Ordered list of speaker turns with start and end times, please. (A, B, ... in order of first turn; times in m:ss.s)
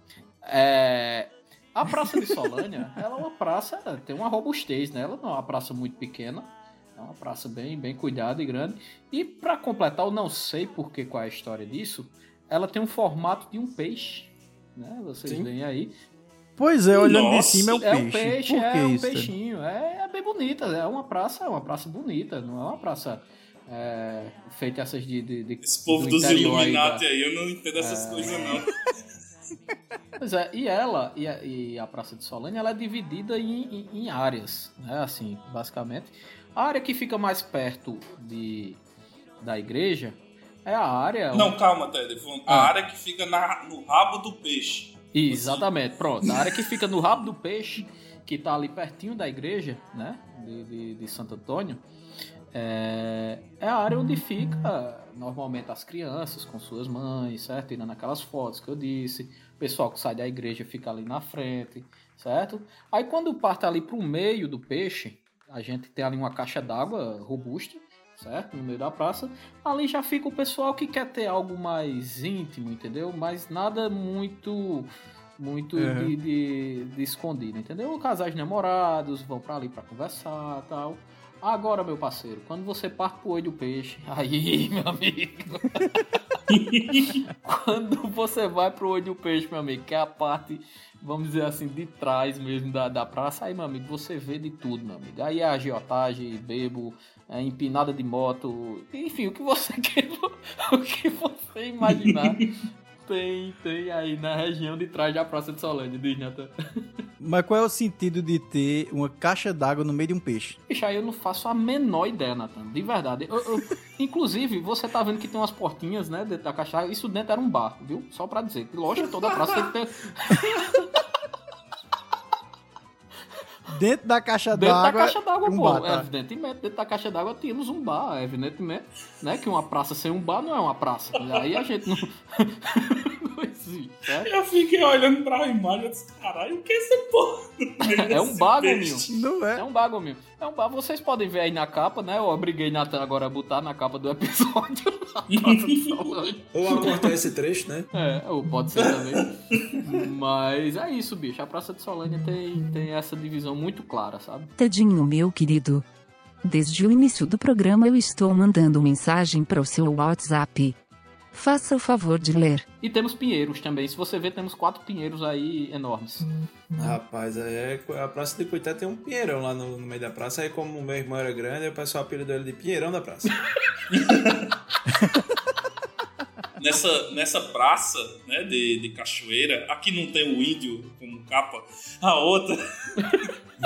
0:00.4-0:15.9 A
0:16.6-0:19.3 B
0:17.0-0:17.8 C
0:17.8-0:27.0 A
0:25.6-0:28.7 C
0:27.8-0:28.5 A
0:30.2-0:38.8 A
0:39.4-0:41.6 A
0:41.3-0:45.7 C
0:42.5-0:42.7 A
0:45.1-0:51.8 A
0:52.5-1:26.0 A
1:15.8-1:16.1 B
1:26.5-1:27.2 C
1:27.3-1:42.5 A
1:43.0-1:46.5 A
1:47.2-1:50.6 B
1:50.7-2:00.9 A
2:03.7-2:06.1 B
2:04.5-2:14.3 A
2:14.2-2:19.2 C
2:17.8-2:27.0 A
2:19.1-2:19.6 B
2:25.3-2:25.9 C
2:26.5-2:27.9 D
2:27.9-2:29.3 A
2:29.8-2:34.5 A
2:34.6-2:35.8 E
2:36.4-2:40.8 E
2:41.3-2:42.6 E
2:42.8-2:46.3 A
2:46.8-2:53.4 D
2:53.9-2:54.4 C
2:56.6-3:03.3 C